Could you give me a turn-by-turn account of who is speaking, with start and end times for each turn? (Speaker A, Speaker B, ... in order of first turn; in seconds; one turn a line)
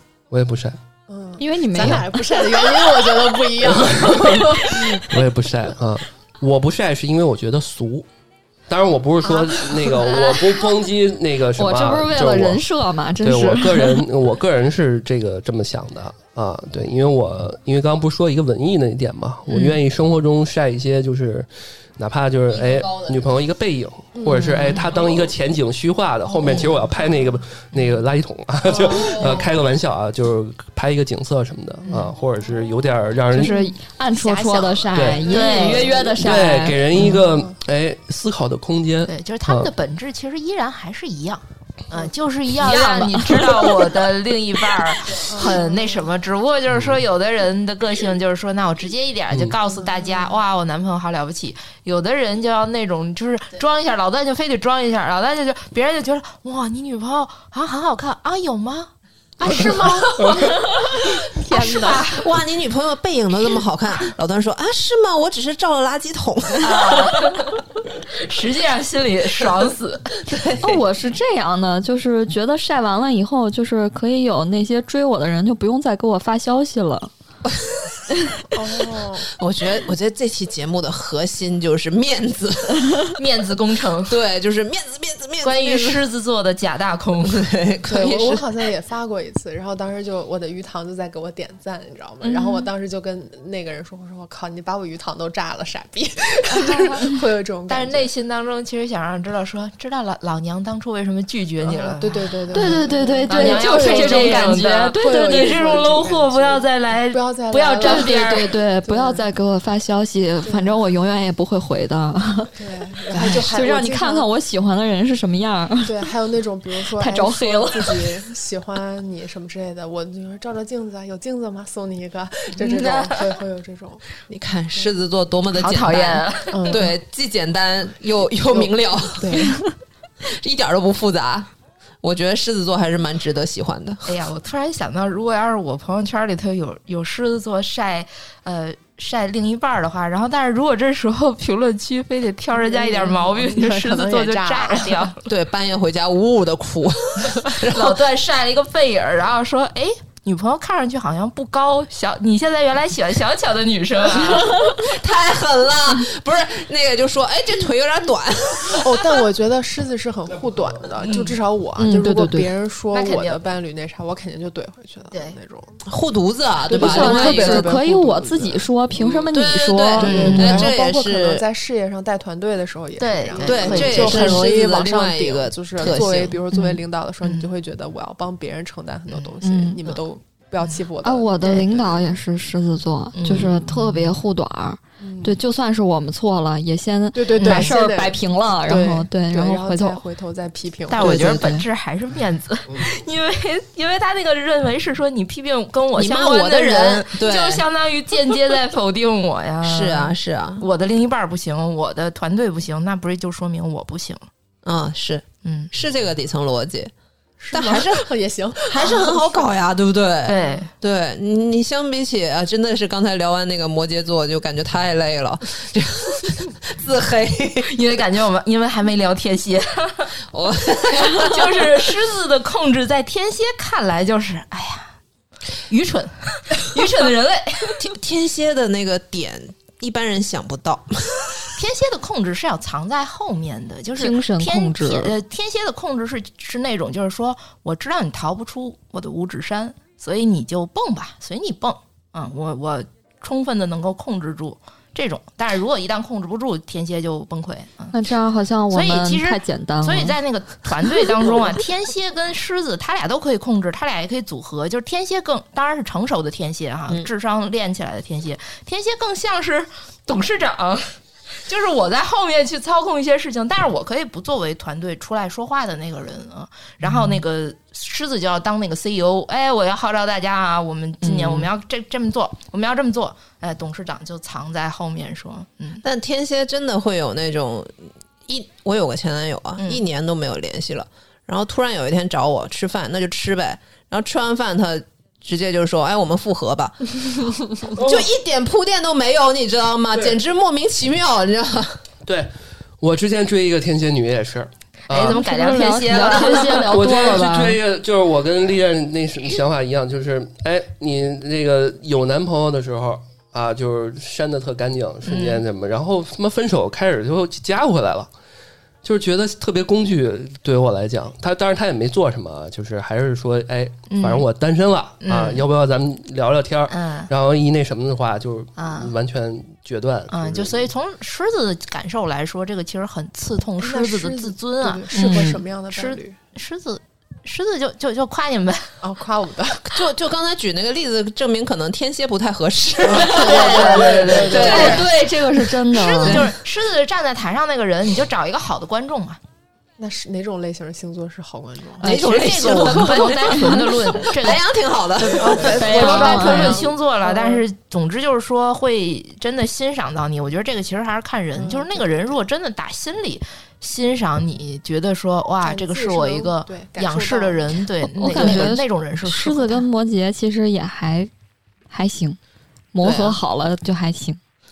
Speaker A: 0.3-0.8
Speaker B: 1.1-5.1
Speaker C: 1.4-2.5
Speaker A: 1.8-2.0
Speaker A: 3.6-8.1
Speaker A: 8.7-12.6
Speaker C: 11.6-14.1
Speaker A: 13.2-33.5
Speaker B: 24.1-24.8
Speaker B: 26.3-26.7
Speaker B: 28.7-29.5
Speaker C: 33.3-36.8
Speaker D: 33.5-36.1
Speaker A: 34.9-35.3
Speaker B: 35.3-36.1
Speaker A: 36.2-39.7
Speaker B: 36.9-37.5
Speaker D: 39.0-58.9
Speaker C: 42.6-43.4
Speaker B: 45.3-46.1
Speaker A: 46.7-47.0
Speaker B: 49.6-50.4
Speaker B: 59.4-62.1
Speaker D: 61.5-62.3
Speaker E: 62.1-67.3
Speaker D: 66.6-67.5
Speaker D: 68.1-70.2
Speaker E: 70.2-70.8
Speaker C: 70.6-77.1
Speaker E: 77.5-77.8
Speaker B: 78.5-79.3
Speaker E: 79.3-83.2
Speaker D: 83.2-84.2
Speaker E: 84.1-86.0
Speaker D: 85.4-87.4
Speaker E: 87.2-88.4
Speaker B: 87.9-98.1
Speaker D: 96.6-97.0
Speaker D: 97.7-108.5
Speaker B: 101.6-109.2
Speaker C: 102.5-105.6
Speaker C: 107.8-112.5
Speaker B: 110.4-110.8
Speaker B: 112.5-114.3
Speaker C: 113.1-116.1
Speaker B: 115.8-124.2
Speaker C: 117.0-118.2
Speaker D: 122.6-123.1
Speaker E: 124.3-129.4
Speaker D: 125.5-126.8
Speaker B: 126.5-126.9
Speaker B: 128.5-129.6
Speaker C: 129.4-129.7
Speaker E: 130.2-131.5
Speaker E: 132.0-134.1
Speaker D: 134.1-145.3
Speaker B: 142.5-145.1
Speaker E: 145.3-148.0
Speaker D: 147.7-154.6
Speaker E: 154.4-159.2
Speaker B: 158.6-165.8
Speaker A: 160.4-160.8
Speaker D: 161.0-161.4
Speaker C: 161.8-162.5
Speaker D: 162.9-163.4
Speaker D: 165.1-165.4
Speaker E: 165.9-167.7
Speaker B: 166.6-169.3
Speaker C: 166.8-170.7
Speaker E: 169.3-171.4
Speaker B: 170.0-182.2
Speaker D: 170.0-170.6
Speaker D: 173.0-174.4
Speaker E: 173.4-176.4
Speaker C: 176.5-176.8
Speaker D: 177.2-177.5
Speaker C: 179.4-179.8
Speaker C: 181.0-190.0
Speaker D: 183.1-184.1
Speaker B: 185.0-185.4
Speaker B: 187.1-191.4
Speaker D: 187.4-187.8
Speaker D: 190.9-204.2
Speaker C: 191.0-191.7
Speaker E: 195.9-197.6
Speaker E: 199.6-200.6
Speaker E: 204.6-206.9
Speaker D: 205.4-205.7
Speaker B: 207.4-209.5
Speaker E: 207.5-208.1
Speaker E: 208.6-217.7
Speaker D: 210.2-210.7
Speaker D: 217.7-220.1
Speaker E: 220.3-221.9
Speaker D: 221.0-224.9
Speaker D: 225.7-227.8
Speaker E: 227.8-231.6
Speaker D: 231.6-247.9
Speaker C: 234.0-235.2
Speaker C: 247.9-250.2
Speaker D: 248.7-275.8
Speaker C: 271.0-271.5
Speaker E: 275.8-291.8
Speaker D: 279.6-279.8
Speaker A: 287.8-288.1
Speaker A: 292.1-295.2
Speaker D: 294.9-296.7
Speaker C: 294.9-297.6
Speaker A: 296.4-308.1
Speaker D: 305.1-305.4
Speaker A: 308.8-320.7
Speaker D: 313.9-314.3
Speaker D: 315.0-315.4
Speaker D: 316.7-317.1
Speaker D: 318.6-318.9
Speaker D: 320.1-328.8
Speaker B: 323.6-326.2
Speaker C: 324.9-325.4
Speaker B: 328.8-329.7
Speaker E: 329.7-335.0
Speaker B: 332.9-334.9
Speaker D: 332.9-334.9
Speaker C: 334.3-336.3
Speaker D: 335.7-339.2
Speaker E: 335.9-336.3
Speaker B: 339.8-341.8
Speaker C: 341.8-343.6
Speaker E: 341.8-346.6
Speaker D: 341.8-344.4
Speaker D: 344.9-359.6
Speaker B: 345.2-347.4
Speaker C: 345.5-346.6
Speaker B: 351.3-352.2
Speaker B: 355.4-357.6
Speaker C: 357.9-361.1
Speaker B: 358.1-358.5
Speaker C: 361.7-362.2
Speaker C: 362.7-364.2
Speaker E: 362.8-363.2